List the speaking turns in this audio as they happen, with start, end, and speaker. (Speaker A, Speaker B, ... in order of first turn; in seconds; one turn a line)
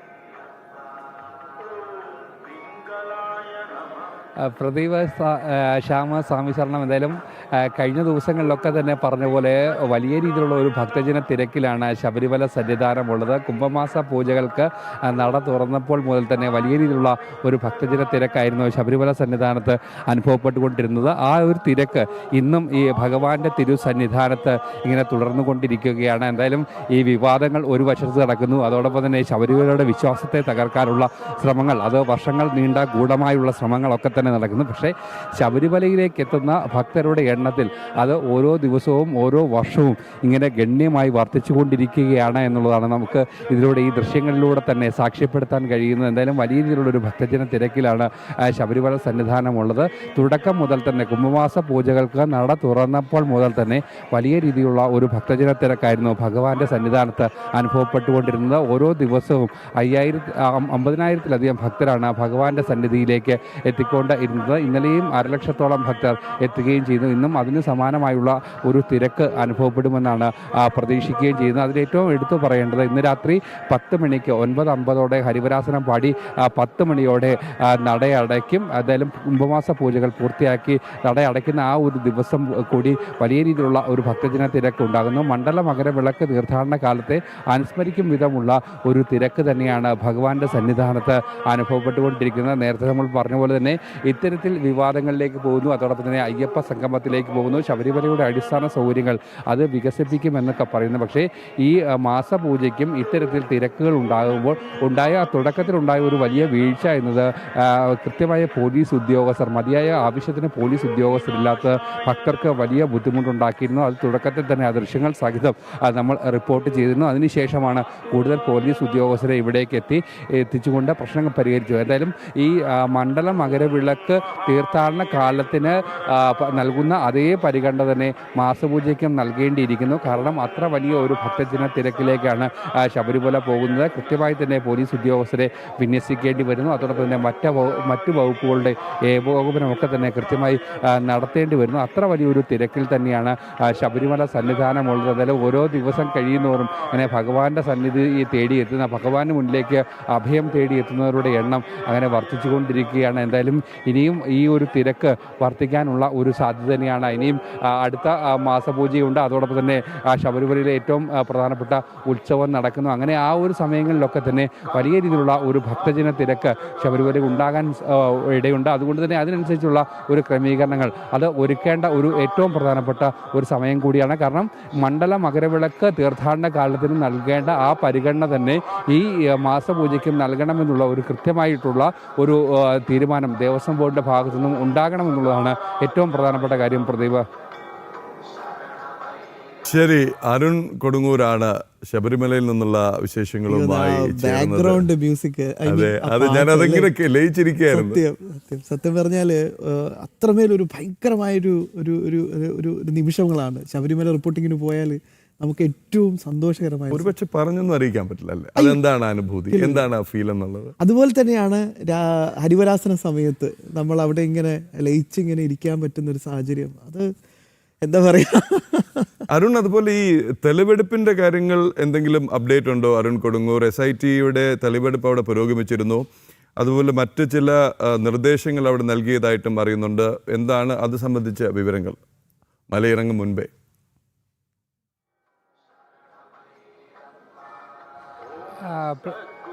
Speaker A: 4.4-187.2
Speaker B: 189.7-194.9
Speaker C: 193.5-196.9
Speaker B: 195.7-198.0
Speaker C: 197.7-207.1
Speaker B: 206.9-210.7
Speaker C: 209.5-209.9
Speaker C: 210.8-217.1
Speaker C: 217.8-219.1
Speaker B: 219.3-226.0
Speaker B: 226.6-232.0
Speaker B: 232.7-233.5
Speaker A: 238.6-239.2